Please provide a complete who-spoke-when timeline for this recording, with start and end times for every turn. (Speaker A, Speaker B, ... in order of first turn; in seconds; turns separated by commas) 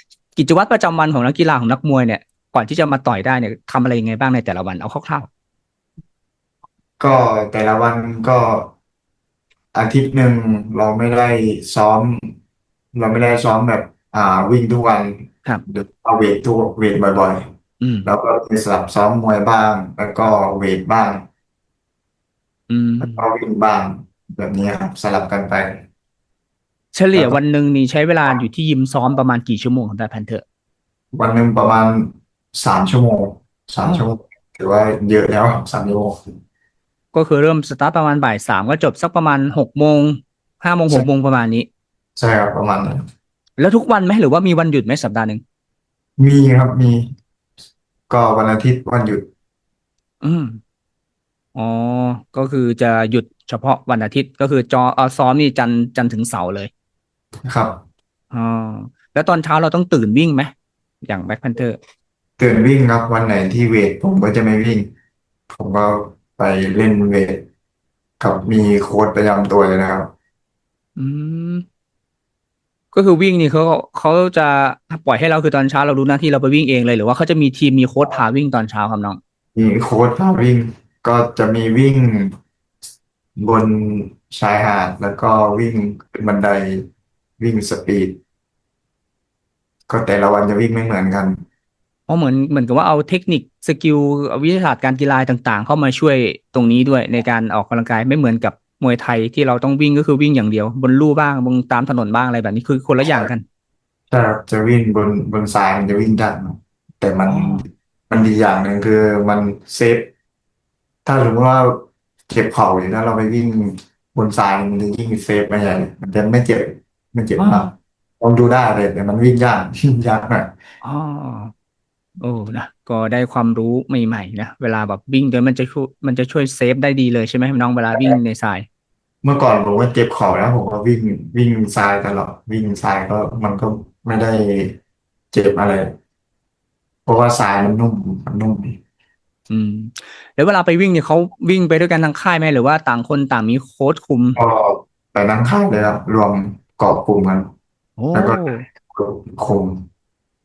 Speaker A: 0.3-5.3, Speaker B: 7.0-8.7, Speaker B: 9.7-12.3, Speaker B: 12.9-17.4, Speaker A: 17.8-18.1, Speaker B: 18.0-21.2, Speaker A: 22.7-23.2, Speaker B: 23.0-25.8, Speaker A: 26.9-30.4, Speaker B: 27.1-27.4, Speaker B: 31.1-36.2, Speaker A: 37.1-41.7, Speaker B: 42.1-43.0, Speaker A: 43.6-45.4, Speaker B: 46.2-47.1, Speaker B: 48.1-49.2, Speaker A: 50.2-50.6, Speaker A: 51.5-56.7, Speaker B: 57.5-57.8, Speaker A: 58.3-60.5, Speaker A: 61.0-61.8, Speaker B: 62.4-64.9, Speaker B: 65.5-67.4, Speaker B: 68.2-70.1, Speaker A: 71.0-71.6, Speaker A: 72.9-79.2, Speaker B: 79.5-82.3, Speaker B: 83.3-86.9, Speaker B: 87.4-88.2, Speaker B: 89.9-91.4, Speaker A: 92.1-103.4, Speaker B: 104.1-110.1, Speaker A: 107.3-107.6, Speaker B: 111.0-120.5, Speaker A: 117.4-117.7, Speaker A: 120.8-121.5, Speaker A: 122.2-128.7, Speaker B: 129.2-134.8, Speaker B: 135.3-135.9, Speaker B: 137.1-138.8, Speaker A: 139.5-144.4, Speaker B: 144.3-147.5, Speaker A: 148.0-148.6, Speaker B: 148.1-149.8